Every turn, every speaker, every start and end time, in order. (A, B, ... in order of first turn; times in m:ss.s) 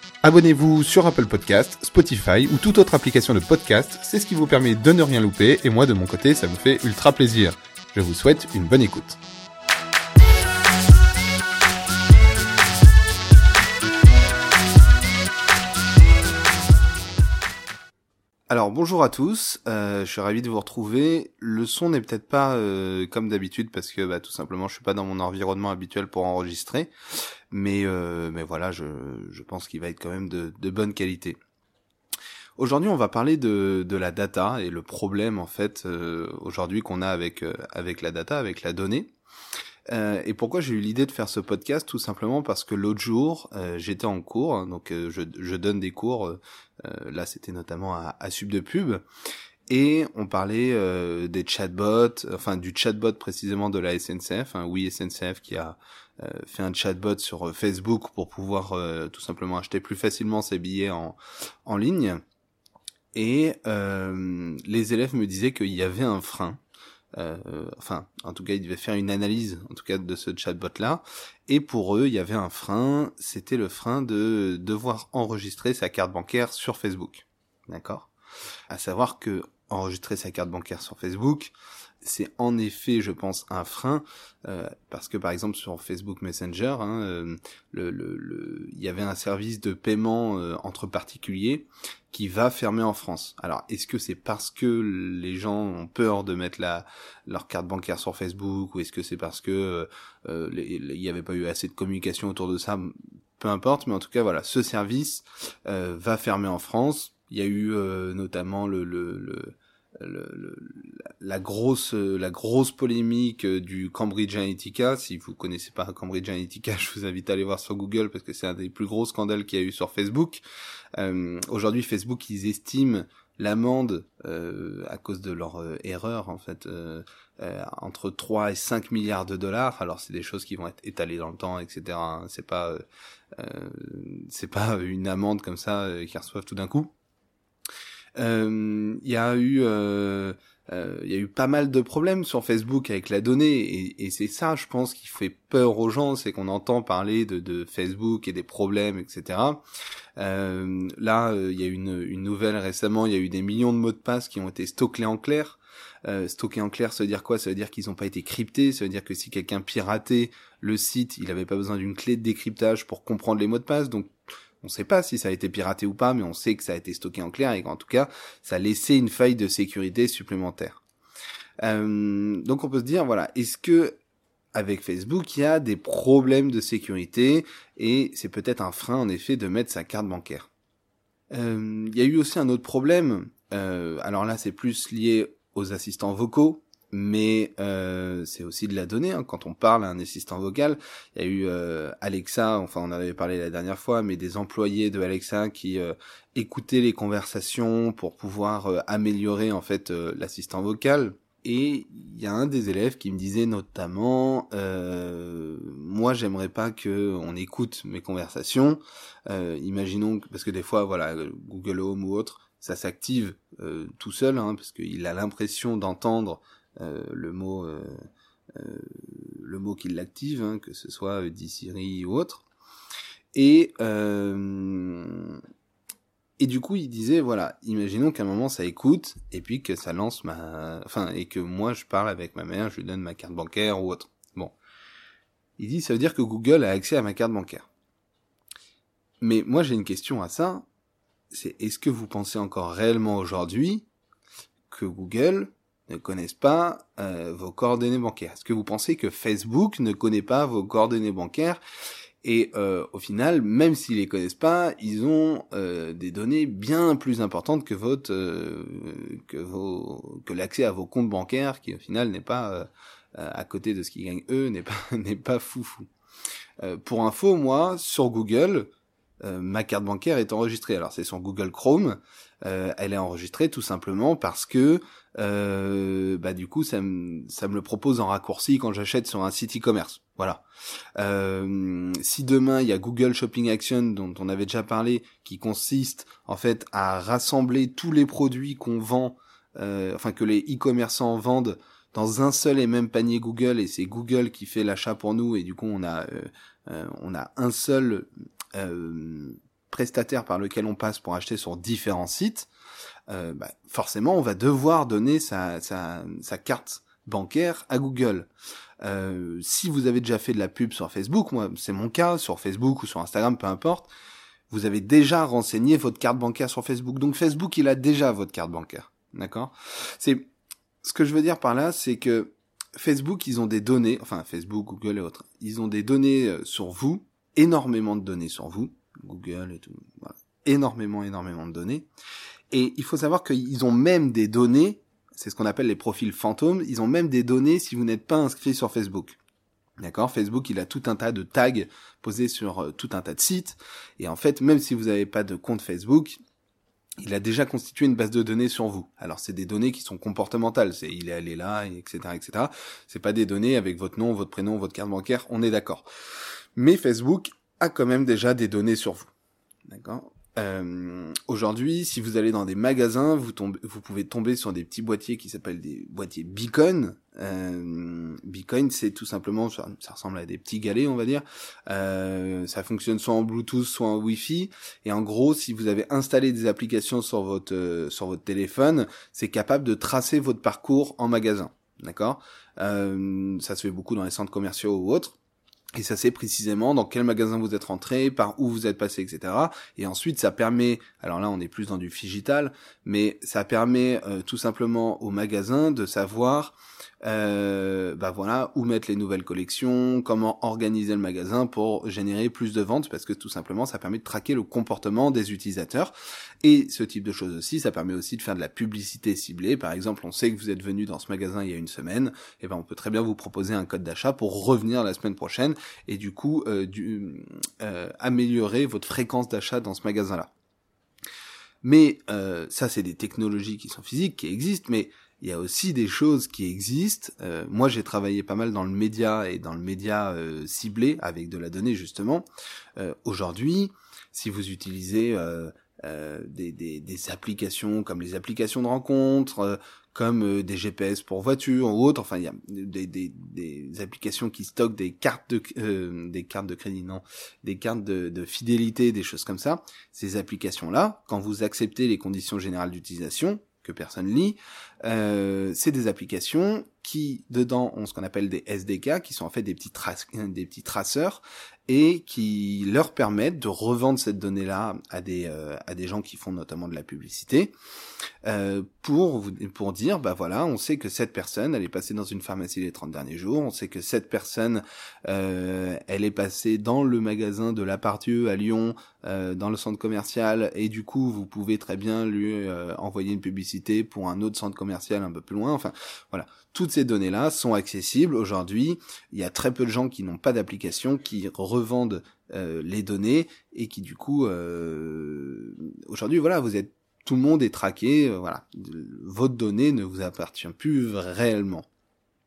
0:00.2-0:09.2 A
0:18.5-0:26.9 A
0:27.5-0:31.4 A
0:32.6-0:39.1 A
0:39.9-0:49.0 A
0:49.7-1:02.2 A
1:03.1-1:06.6 A
1:07.1-1:18.1 A
1:18.7-2:00.4 A
2:01.0-2:12.8 A
2:13.3-2:16.9 A
2:18.2-2:29.6 A
2:30.2-2:50.8 A
2:51.6-2:53.9 A
2:54.5-3:00.5 A
3:01.3-3:42.4 A
3:43.3-3:45.4 A
3:46.4-3:54.5 A
3:55.6-3:57.7 A
3:59.2-4:00.6 A
4:01.3-4:03.8 A
4:04.7-4:11.6 A
4:12.2-4:25.9 A
4:26.6-4:28.7 A
4:29.2-4:40.4 A
4:41.0-5:02.5 A
5:03.1-5:08.3 A
5:08.8-5:13.9 A
5:14.5-5:20.3 A
5:20.8-5:31.9 A
5:32.5-5:39.2 A
5:39.8-5:46.2 A
5:47.0-5:55.8 A
5:56.6-5:59.1 A
5:59.7-6:25.2 A
6:25.8-7:00.3 A
7:01.6-7:47.5 A
7:48.2-8:21.6 A